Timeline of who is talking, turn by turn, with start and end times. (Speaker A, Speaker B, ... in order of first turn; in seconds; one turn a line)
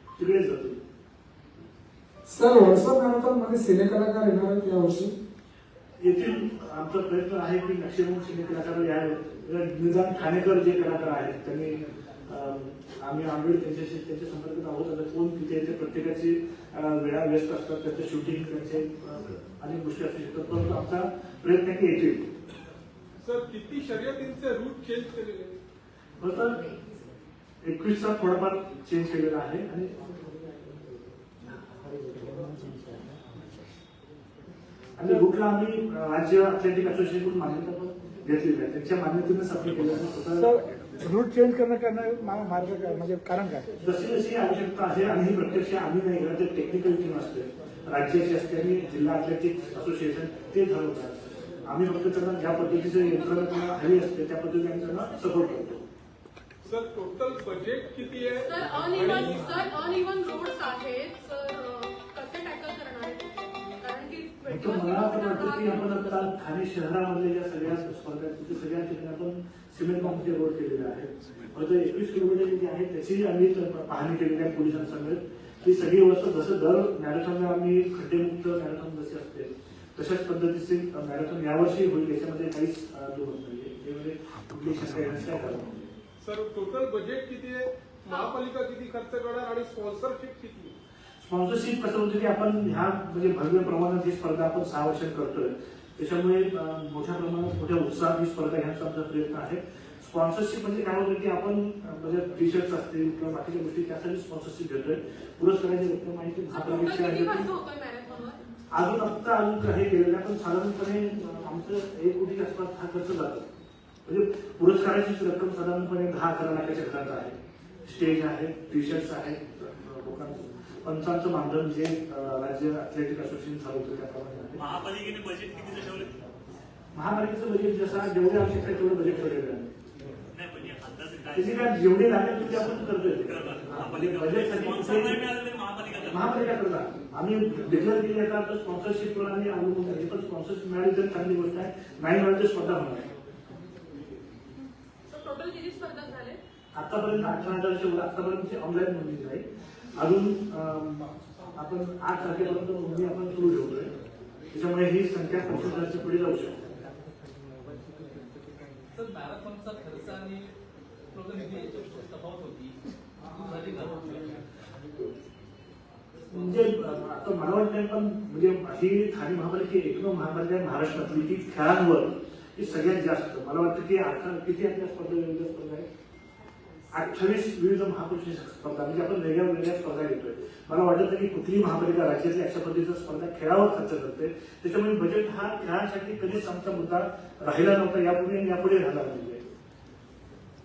Speaker A: 0.2-0.8
Speaker B: 2.3-5.1
Speaker A: 6.0-22.3
Speaker C: 23.2-25.6
Speaker A: 26.2-26.6
Speaker A: 27.6-30.1
Speaker D: 31.6-33.2
Speaker A: 35.0-40.5
Speaker D: 35.0-35.3
Speaker D: 40.4-43.7
Speaker A: 43.8-55.9
Speaker E: 52.8-53.6
Speaker E: 54.9-55.6
Speaker C: 56.6-59.5
Speaker E: 58.5-66.3
Speaker A: 64.5-85.9
Speaker C: 86.2-90.8
Speaker E: 88.1-88.3
Speaker A: 91.2-107.5
Speaker E: 106.5-108.5
Speaker A: 108.7-113.5
Speaker A: 114.1-124.6
Speaker F: 124.6-126.2
Speaker A: 126.9-129.8
Speaker F: 130.3-131.8
Speaker A: 131.3-135.3
Speaker F: 133.2-136.5
Speaker A: 136.1-143.1
Speaker E: 145.1-146.4
Speaker A: 146.8-149.4
Speaker A: 150.0-153.9
Speaker A: 154.5-156.7
Speaker G: 158.9-160.5
Speaker G: 161.1-162.8
Speaker G: 163.3-164.5
Speaker A: 166.3-175.9
Speaker A: 176.9-189.4